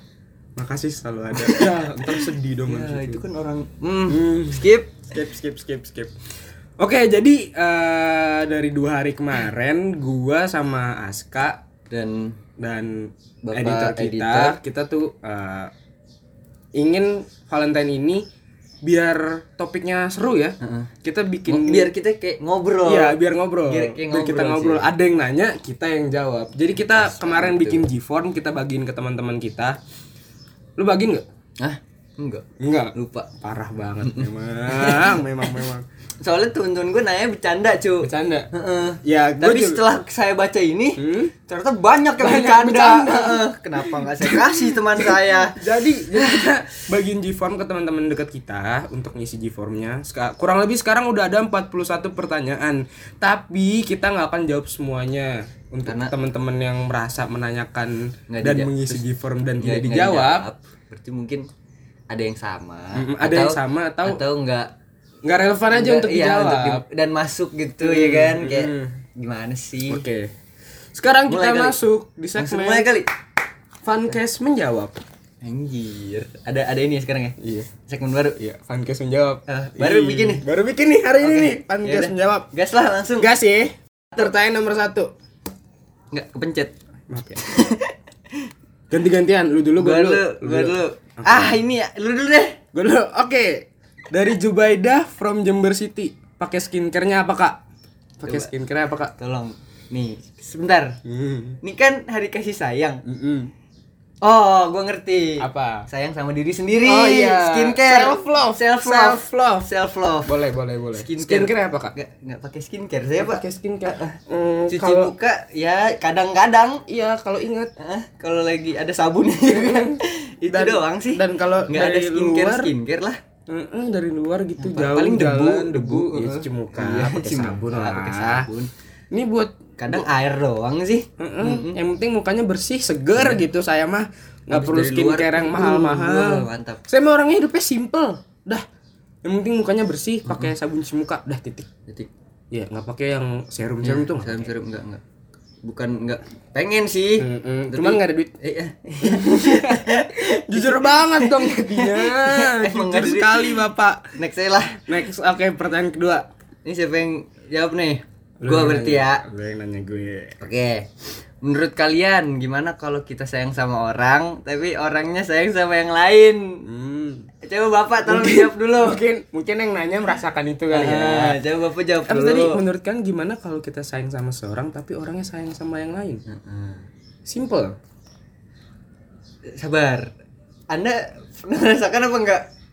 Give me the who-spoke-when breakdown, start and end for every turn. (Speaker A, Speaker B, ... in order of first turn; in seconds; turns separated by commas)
Speaker A: 0.6-3.2, Speaker B: 1.4-5.0, Speaker A: 4.1-6.1, Speaker A: 6.8-11.6, Speaker B: 11.9-12.4, Speaker A: 12.6-15.7, Speaker B: 13.4-14.6, Speaker A: 16.7-18.2, Speaker A: 18.8-21.9, Speaker B: 20.6-20.9, Speaker B: 21.5-24.9, Speaker A: 22.8-29.8, Speaker B: 26.9-27.9, Speaker A: 30.8-31.2, Speaker B: 31.6-33.3, Speaker A: 32.6-35.9, Speaker B: 34.0-35.6, Speaker B: 36.2-45.6, Speaker A: 38.0-38.5, Speaker A: 39.0-39.8, Speaker A: 41.0-41.3, Speaker A: 42.2-60.5, Speaker B: 46.1-46.5, Speaker B: 55.8-56.1, Speaker B: 58.3-59.0, Speaker B: 59.6-61.5, Speaker B: 62.1-64.7, Speaker A: 62.9-64.2, Speaker A: 65.2-66.8, Speaker B: 65.7-70.0, Speaker A: 67.8-69.0, Speaker A: 69.9-70.3, Speaker A: 70.9-72.9, Speaker B: 71.3-71.8, Speaker B: 72.3-73.1, Speaker A: 73.8-75.0, Speaker B: 75.4-78.4, Speaker A: 77.4-77.7, Speaker A: 78.4-82.5, Speaker B: 79.5-80.4, Speaker B: 81.2-83.3, Speaker A: 83.2-85.1, Speaker B: 86.1-86.7, Speaker A: 87.1-87.7, Speaker B: 87.4-88.5, Speaker A: 88.9-91.5, Speaker B: 89.8-92.6, Speaker A: 92.7-97.6, Speaker A: 98.2-99.1, Speaker B: 99.2-101.0, Speaker A: 101.0-101.6, Speaker B: 101.6-103.0, Speaker A: 103.0-103.5, Speaker B: 104.2-110.3, Speaker A: 105.4-105.8, Speaker A: 106.8-109.7, Speaker A: 110.2-111.9, Speaker B: 110.9-116.8, Speaker A: 113.2-115.1, Speaker A: 116.9-117.7, Speaker B: 117.8-123.2, Speaker A: 119.5-122.7, Speaker A: 123.5-128.5, Speaker B: 124.6-128.7, Speaker A: 129.1-130.0, Speaker B: 129.8-131.8, Speaker A: 131.2-138.6, Speaker B: 133.1-133.4, Speaker B: 134.5-136.8, Speaker A: 139.2-141.7, Speaker A: 142.5-144.5, Speaker B: 143.8-145.0, Speaker B: 145.6-153.6, Speaker A: 147.2-148.3, Speaker A: 149.0-154.0, Speaker B: 154.2-154.8, Speaker A: 154.9-156.3, Speaker B: 156.6-159.2, Speaker A: 158.4-160.4, Speaker B: 160.4-160.9, Speaker B: 161.4-166.6, Speaker A: 166.6-167.3, Speaker B: 167.4-169.0, Speaker A: 168.0-171.4, Speaker B: 170.7-172.6, Speaker A: 172.1-176.2, Speaker B: 176.2-176.9, Speaker A: 177.2-177.8, Speaker B: 179.5-180.1, Speaker B: 180.7-182.4